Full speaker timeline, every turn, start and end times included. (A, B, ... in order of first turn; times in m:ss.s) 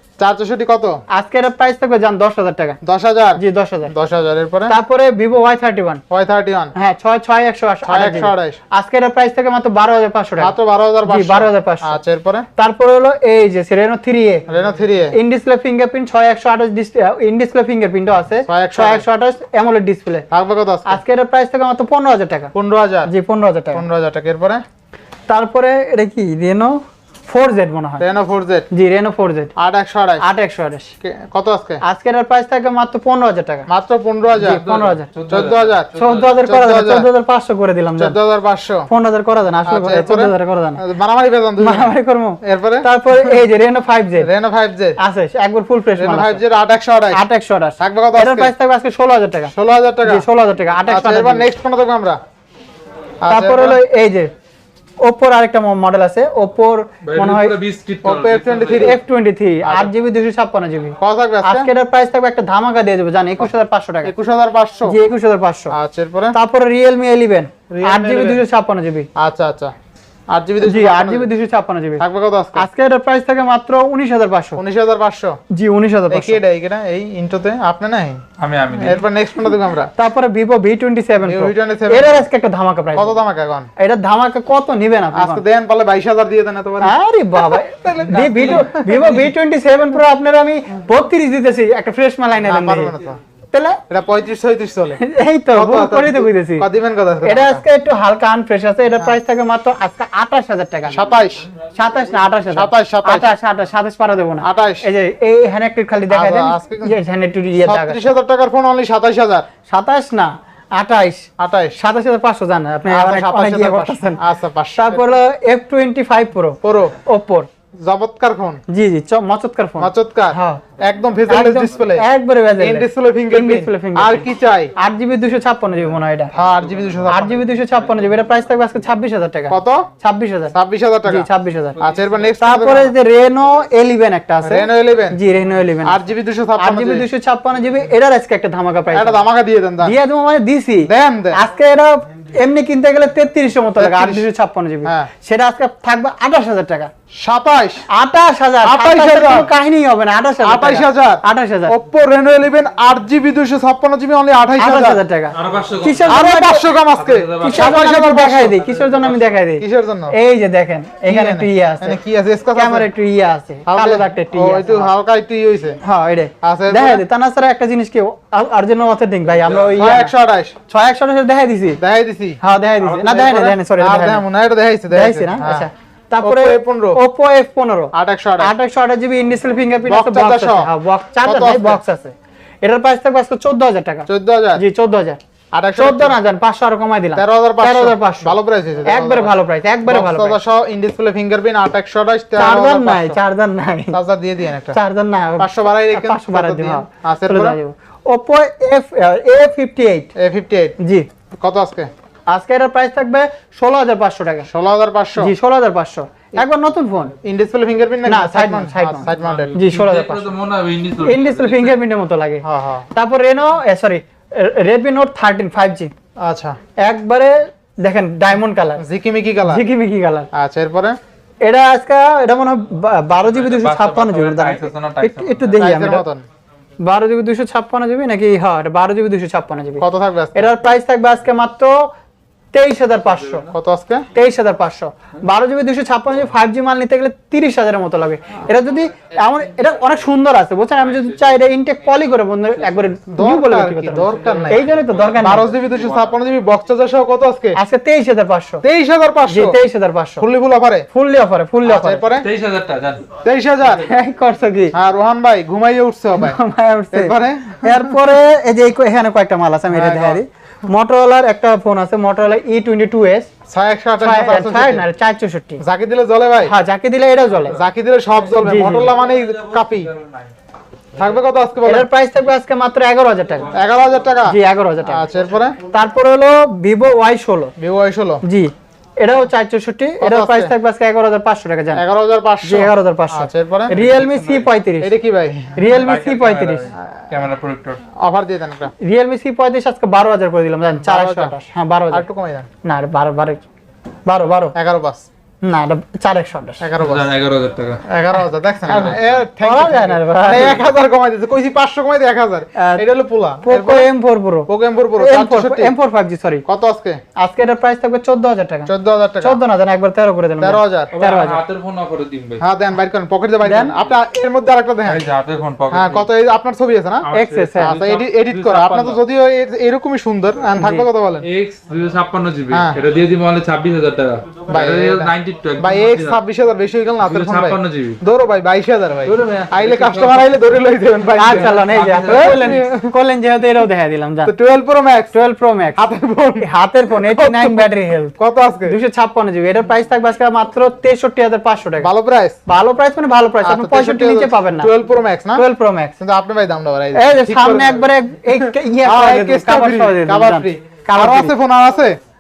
0:00.2-0:01.0 A
0:01.1-0:02.8 B
0:02.8-0:04.8 A
0:03.4-0:03.9 B
0:04.7-0:06.0 B
0:06.1-0:06.7 A
0:06.8-0:10.5 B
0:07.9-0:08.6 A
0:10.4-0:12.5 A
0:11.0-0:12.0 B
0:12.6-0:14.4 B
0:14.5-0:15.2 A
0:15.1-0:20.3 B
0:18.5-0:19.0 A
0:20.3-0:21.0 A
0:20.9-0:22.5 B
0:22.5-0:23.1 A
0:23.1-0:23.8 B
0:23.7-0:24.6 A
0:25.3-0:28.1 B
0:28.0-0:28.7 A
0:28.7-0:29.5 B
0:29.6-0:30.2 A
0:30.2-0:30.9 B
0:31.0-0:31.8 A
0:31.8-0:33.7 B
0:33.7-0:34.6 A
0:34.4-0:35.1 B
0:34.4-0:36.4 C
0:35.3-0:37.1 A
0:36.0-0:38.2 B
0:38.0-0:38.9 A
0:38.9-0:40.8 B
0:39.7-0:43.4 A
0:41.6-0:44.3 B
0:44.2-0:45.0 A
0:45.0-0:46.4 B
0:46.0-0:47.2 A
0:47.1-0:49.5 B
0:47.8-0:48.5 A
0:49.5-0:50.3 A
0:50.0-0:51.5 B
0:50.9-0:52.2 A
0:53.2-0:53.8 A
0:53.3-0:54.3 B
0:55.0-0:57.6 B
0:57.0-0:59.0 C
0:58.0-0:59.0 A
0:58.8-1:04.1 B
0:59.6-0:59.9 A
1:01.0-1:01.7 A
1:04.0-1:05.0 A
1:04.9-1:05.7 B
1:05.7-1:06.4 A
1:06.3-1:09.1 B
1:07.7-1:08.4 A
1:09.2-1:09.7 A
1:10.3-1:11.3 A
1:10.6-1:12.0 B
1:12.0-1:12.7 A
1:12.6-1:14.6 B
1:14.6-1:15.4 A
1:15.5-1:16.4 B
1:16.1-1:18.2 A
1:18.4-1:19.0 C
1:18.8-1:19.9 A
1:20.0-1:23.2 B
1:21.2-1:22.3 A
1:23.0-1:23.7 A
1:23.8-1:25.4 B
1:25.1-1:29.2 A
1:26.8-1:32.9 B
1:32.4-1:33.2 A
1:33.5-1:33.8 B
1:33.9-1:35.0 A
1:35.0-1:36.7 B
1:35.5-1:37.6 A
1:37.2-1:41.1 B
1:40.9-1:41.4 A
1:41.8-1:48.0 B
1:42.5-1:43.4 A
1:44.4-1:44.9 A
1:46.1-1:47.0 A
1:47.6-1:49.5 A
1:49.7-1:54.2 B
1:51.4-1:51.8 A
1:52.9-1:55.0 A
1:54.8-1:57.5 B
1:56.6-1:57.0 A
1:57.8-1:58.6 A
1:58.7-2:00.6 B
1:59.8-2:02.0 A
2:01.3-2:06.4 B
2:02.6-2:04.7 A
2:06.3-2:07.5 A
2:06.7-2:07.0 C
2:07.1-2:10.6 B
2:09.5-2:09.9 A
2:10.5-2:13.0 A
2:11.1-2:11.8 B
2:11.8-2:12.3 C
2:12.4-2:16.0 B
2:14.4-2:15.2 A
2:15.8-2:17.1 A
2:16.6-2:19.2 B
2:18.9-2:20.0 A
2:19.8-2:26.9 B
2:20.8-2:21.4 A
2:23.8-2:24.2 A
2:27.2-2:27.8 A
2:27.9-2:31.8 B
2:28.6-2:29.5 A
2:30.4-2:35.0 A
2:34.6-2:36.7 B
2:35.3-2:36.1 C
2:36.1-2:38.7 A
2:37.0-2:37.8 C
2:37.4-2:42.0 B
2:38.7-2:39.2 C
2:39.6-2:40.2 A
2:41.1-2:42.9 A
2:42.5-2:44.9 B
2:43.7-2:45.8 A
2:45.8-2:50.1 B
2:46.4-2:47.0 A
2:49.6-2:50.6 A
2:50.7-2:51.8 B
2:51.8-2:55.7 A
2:52.4-2:54.2 B
2:54.9-3:05.2 B
2:56.2-2:57.0 A
2:57.9-2:58.5 A
2:59.9-3:00.7 A
3:01.2-3:01.8 A
3:04.1-3:04.6 A
3:05.5-3:06.2 A
3:05.8-3:10.4 B
3:07.2-3:09.3 A
3:09.8-3:13.2 A
3:12.4-3:14.0 B
3:13.9-3:14.8 A
3:14.7-3:20.1 B
3:15.4-3:17.6 A
3:20.2-3:20.8 A
3:20.8-3:21.1 B
3:21.3-3:21.9 A
3:22.3-3:24.5 B
3:24.5-3:25.3 A
3:25.2-3:27.1 B
3:27.2-3:29.6 A
3:28.1-3:30.3 B
3:29.2-3:31.7 C
3:31.0-3:35.9 B
3:32.4-3:32.9 A
3:36.2-3:36.6 A
3:36.8-3:38.8 B
3:38.8-3:39.6 A
3:39.5-3:40.3 B
3:40.3-3:41.0 A
3:41.4-3:46.0 B
3:43.2-3:45.5 C
3:45.6-3:46.2 A
3:46.8-3:51.9 B
3:49.8-3:50.5 A
3:52.5-3:53.5 B
3:53.1-3:53.5 C
3:53.5-3:54.1 A
3:54.2-4:05.5 B
4:00.8-4:01.3 C
4:02.6-4:03.0 C
4:03.1-4:04.6 A
4:04.2-4:06.0 C
4:05.2-4:07.6 A
4:07.6-4:08.6 B
4:08.6-4:09.6 A
4:09.3-4:10.2 B
4:10.2-4:10.9 A
4:10.9-4:12.0 B
4:11.6-4:12.3 A
4:12.2-4:13.0 C
4:13.2-4:13.9 A
4:13.8-4:14.8 B
4:14.7-4:16.4 A
4:16.2-4:23.3 B
4:16.9-4:18.0 A
4:19.7-4:20.2 A
4:23.5-4:24.8 A
4:24.0-4:25.6 B
4:25.6-4:26.5 A
4:26.4-4:27.6 B
4:27.5-4:29.9 A
4:28.4-4:28.9 B
4:28.7-4:30.3 C
4:31.0-4:31.9 A
4:31.6-4:33.5 B
4:33.5-4:35.6 A
4:34.2-4:35.1 B
4:35.7-4:37.5 B
4:37.6-4:38.2 A
4:38.2-4:41.8 B
4:40.0-4:40.5 A
4:41.7-4:43.8 A
4:42.4-4:44.9 B
4:43.7-4:44.5 C
4:44.8-4:45.6 A
4:45.6-4:46.7 B
4:45.7-4:47.8 C
4:48.0-4:48.7 A
4:48.8-4:52.0 B
4:50.8-4:51.3 A
4:51.9-4:52.5 A
4:52.6-4:53.4 B
4:54.1-4:54.6 B
4:54.6-4:55.1 A
4:55.4-4:56.7 B
4:56.6-4:57.1 A
4:56.8-4:57.8 C
4:57.8-5:03.9 A
4:58.7-4:59.2 C
4:59.4-5:00.6 B
5:02.6-5:02.9 B
5:03.4-5:06.4 B
5:04.5-5:05.7 A
5:06.5-5:07.0 A
5:07.2-5:11.4 B
5:08.7-5:09.4 A
5:10.4-5:10.9 A
5:10.9-5:12.4 C
5:12.4-5:15.0 A
5:13.4-5:13.7 B
5:14.8-5:16.1 C
5:15.7-5:21.2 A
5:17.0-5:19.0 C
5:17.1-5:17.8 B
5:20.6-5:20.8 B
5:21.2-5:26.2 C
5:22.5-5:22.8 A
5:24.5-5:32.9 A
5:27.0-5:28.0 C
5:29.1-5:30.3 C
5:31.2-5:34.3 B
5:31.3-5:32.5 C
5:34.3-5:35.2 A
5:35.1-5:35.8 B
5:35.8-5:38.8 A
5:36.4-5:38.1 B
5:38.7-5:41.9 B
5:41.8-5:42.4 A
5:42.5-5:44.7 B
5:43.4-5:45.4 A
5:45.4-5:46.0 B
5:46.0-5:52.0 A
5:47.0-5:51.3 B